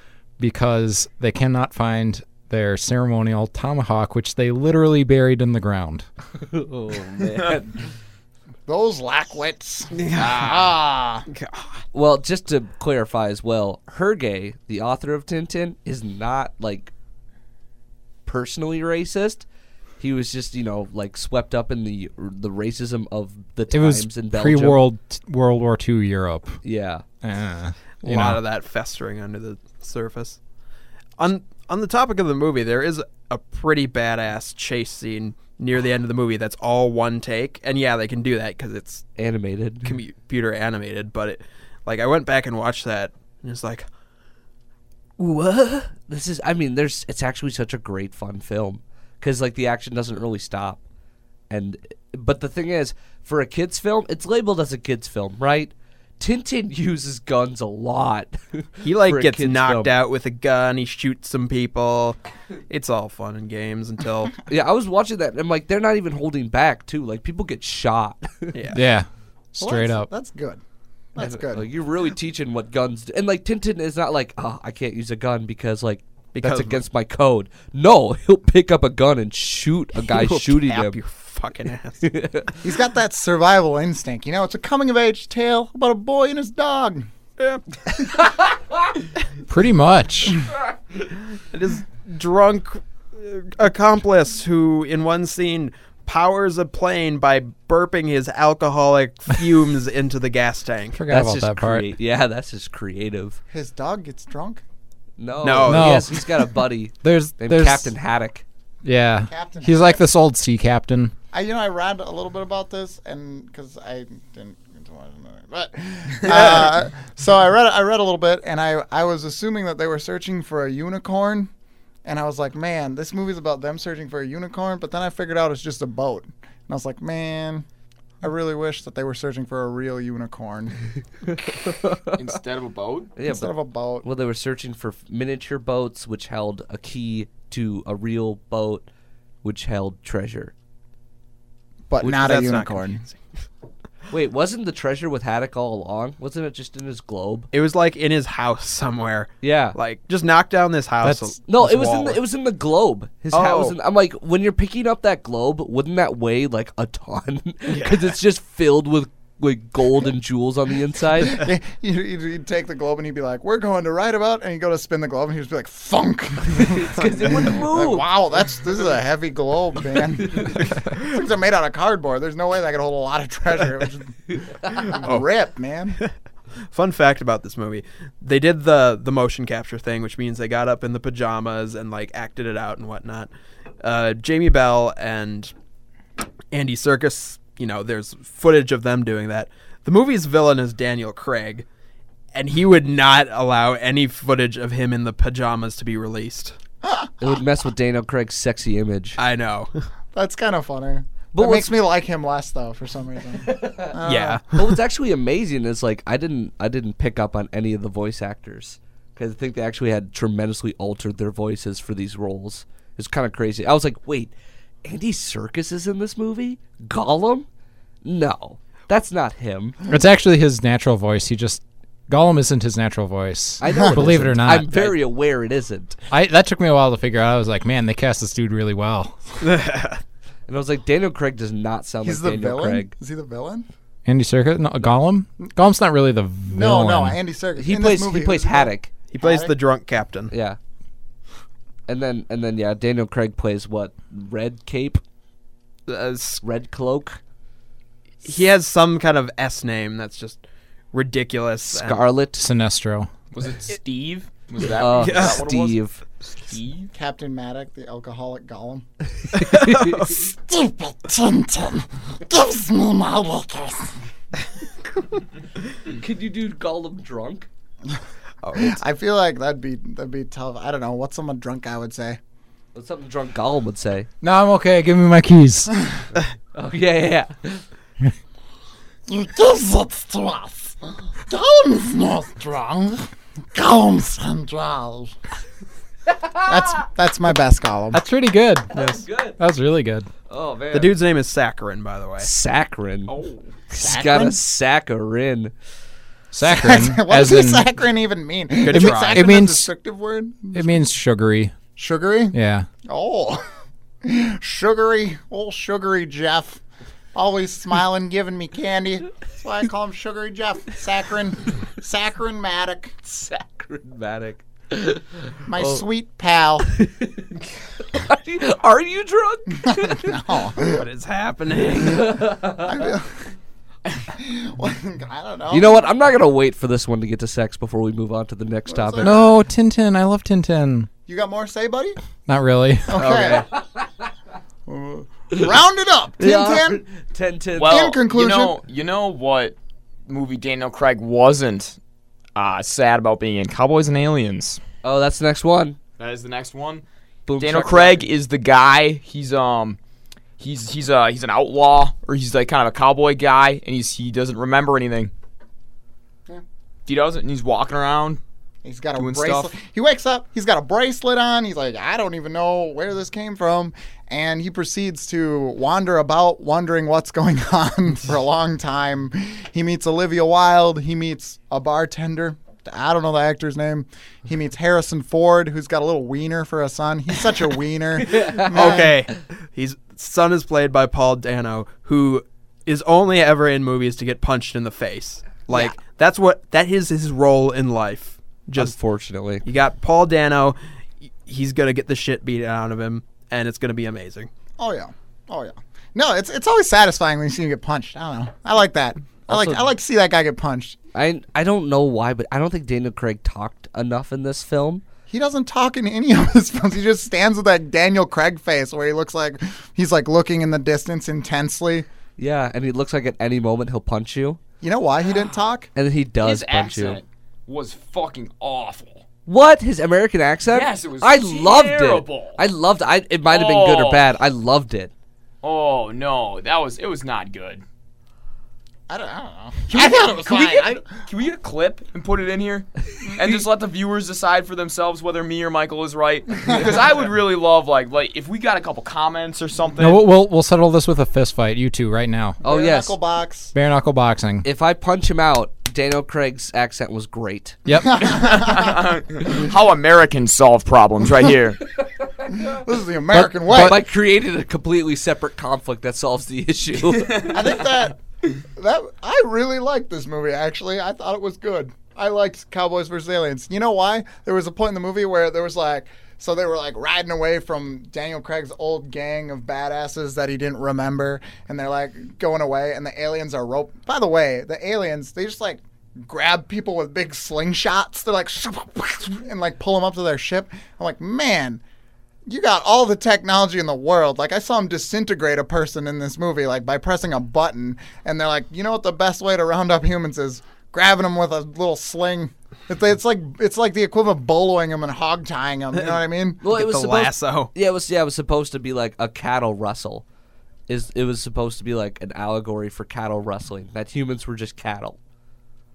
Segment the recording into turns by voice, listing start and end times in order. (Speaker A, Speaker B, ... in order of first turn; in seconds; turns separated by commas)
Speaker A: 0.4-6.1, Speaker B: 6.4-7.8, Speaker C: 8.7-11.3, Speaker D: 9.9-10.7, Speaker D: 11.3-11.8, Speaker B: 11.9-16.9, Speaker B: 18.3-19.5, Speaker B: 20.0-24.8, Speaker A: 23.7-26.6, Speaker B: 26.6-27.1, Speaker A: 27.2-28.4, Speaker D: 28.0-30.4, Speaker D: 31.2-39.0, Speaker B: 39.2-40.0, Speaker D: 39.8-43.9, Speaker D: 45.2-45.9, Speaker B: 45.9-50.8, Speaker B: 51.5-60.0, Speaker D: 58.8-62.2, Speaker D: 62.7-64.3, Speaker B: 64.5-68.6, Speaker D: 68.5-68.8, Speaker A: 68.7-70.1, Speaker C: 69.6-70.6, Speaker C: 71.2-71.7, Speaker B: 71.2-81.0, Speaker D: 76.4-76.8, Speaker D: 80.0-82.1, Speaker B: 82.0-82.5, Speaker C: 82.6-87.1, Speaker A: 89.5-90.4, Speaker D: 91.4-101.0, Speaker A: 100.9-101.9, Speaker B: 101.1-103.4, Speaker C: 103.5-104.6, Speaker B: 105.2-108.4, Speaker D: 105.4-106.0, Speaker A: 105.7-106.2, Speaker A: 107.0-107.9, Speaker A: 108.8-111.1, Speaker C: 109.3-110.0, Speaker C: 111.3-121.5, Speaker C: 122.0-127.7, Speaker C: 128.2-130.8, Speaker B: 131.5-132.2, Speaker E: 132.1-133.1, Speaker B: 133.2-138.8, Speaker C: 133.2-134.1, Speaker B: 139.4-140.5, Speaker C: 141.9-143.0, Speaker D: 142.0-143.2, Speaker B: 144.1-147.5, Speaker D: 147.5-152.2, Speaker B: 149.4-149.8, Speaker A: 151.0-151.3, Speaker B: 151.5-161.4, Speaker D: 153.3-153.8, Speaker D: 157.7-158.2, Speaker C: 161.2-176.0, Speaker B: 166.8-168.1, Speaker D: 174.8-175.3, Speaker D: 176.7-185.5, Speaker D: 186.5-191.7, Speaker D: 192.3-196.6, Speaker C: 196.8-197.1, Speaker B: 197.2-199.2, Speaker D: 199.2-199.7, Speaker C: 200.1-204.4, Speaker B: 201.3-201.8, Speaker B: 203.4-204.0, Speaker D: 204.0-204.6, Speaker B: 204.5-214.3, Speaker B: 214.8-217.5, Speaker B: 218.0-219.8, Speaker A: 219.9-225.0, Speaker B: 223.6-226.0, Speaker A: 226.1-229.2, Speaker D: 229.4-230.0, Speaker B: 230.5-232.9, Speaker C: 232.0-233.7, Speaker A: 234.1-237.2, Speaker C: 236.5-239.5, Speaker B: 237.6-238.9, Speaker D: 239.1-240.3, Speaker B: 240.3-240.6, Speaker B: 241.9-245.0, Speaker D: 245.9-246.4, Speaker B: 246.4-247.2, Speaker D: 248.2-252.1, Speaker B: 251.7-252.4, Speaker A: 252.4-253.1, Speaker E: 253.3-256.9, Speaker B: 254.8-256.0, Speaker D: 254.9-255.4, Speaker C: 256.9-258.9, Speaker D: 259.3-260.2, Speaker B: 259.4-260.0, Speaker C: 260.1-263.9, Speaker B: 265.9-267.5, Speaker D: 268.4-268.8, Speaker C: 268.6-272.2, Speaker B: 272.7-274.1, Speaker A: 274.2-275.7, Speaker B: 276.6-277.6, Speaker C: 279.1-285.1, Speaker C: 286.4-288.0, Speaker A: 287.9-288.7, Speaker B: 288.7-289.4, Speaker D: 288.8-289.0, Speaker A: 289.4-290.1, Speaker B: 290.3-291.0, Speaker D: 290.7-292.3, Speaker B: 292.2-293.2, Speaker E: 293.1-293.5, Speaker B: 293.7-295.5, Speaker C: 293.8-294.4, Speaker A: 296.3-297.7, Speaker C: 296.4-300.8, Speaker D: 298.6-299.3, Speaker A: 298.7-299.7, Speaker A: 300.5-301.6, Speaker C: 301.8-303.4, Speaker A: 302.3-302.7, Speaker C: 304.0-306.6, Speaker C: 307.1-313.2, Speaker B: 313.4-315.9, Speaker C: 315.5-316.8, Speaker B: 316.7-320.2, Speaker C: 319.7-320.8, Speaker D: 320.6-322.2, Speaker B: 321.7-322.8, Speaker C: 322.3-323.1, Speaker C: 324.1-325.9, Speaker B: 325.5-329.1, Speaker C: 328.7-329.3, Speaker A: 329.0-330.9, Speaker C: 331.1-332.0, Speaker A: 332.3-333.1, Speaker C: 332.9-333.5, Speaker B: 333.0-333.9, Speaker C: 334.7-336.8, Speaker B: 336.2-337.9, Speaker E: 337.6-339.6, Speaker C: 337.6-338.6, Speaker E: 340.1-341.8, Speaker E: 342.4-344.6, Speaker B: 344.8-345.8, Speaker E: 346.0-346.8, Speaker B: 347.3-348.1, Speaker E: 347.4-349.8, Speaker E: 350.4-355.1, Speaker E: 356.9-358.2, Speaker C: 358.6-379.0, Speaker E: 359.0-359.5, Speaker B: 378.1-378.9, Speaker D: 378.4-388.8, Speaker B: 388.6-389.4, Speaker D: 389.4-390.6, Speaker D: 391.2-394.3, Speaker C: 394.6-400.8, Speaker B: 399.3-399.7, Speaker B: 400.9-404.8, Speaker C: 405.1-411.9, Speaker B: 412.2-414.4, Speaker C: 414.6-415.7, Speaker B: 415.8-417.0, Speaker E: 416.2-419.0, Speaker B: 419.3-424.9, Speaker E: 420.5-422.4, Speaker E: 423.3-424.1, Speaker E: 425.4-427.6, Speaker C: 428.9-430.9, Speaker E: 429.7-440.0, Speaker A: 439.8-442.4, Speaker C: 442.4-443.5, Speaker B: 442.4-443.0, Speaker A: 443.5-444.5, Speaker B: 444.4-447.6, Speaker A: 447.7-448.0, Speaker C: 447.8-448.8, Speaker E: 448.1-451.6, Speaker C: 452.4-453.8, Speaker A: 453.1-453.8, Speaker B: 453.5-457.3, Speaker E: 456.9-457.5, Speaker C: 457.3-458.0, Speaker C: 458.6-481.6, Speaker C: 482.3-496.4, Speaker D: 495.7-497.5, Speaker B: 496.4-500.0, Speaker B: 500.7-505.0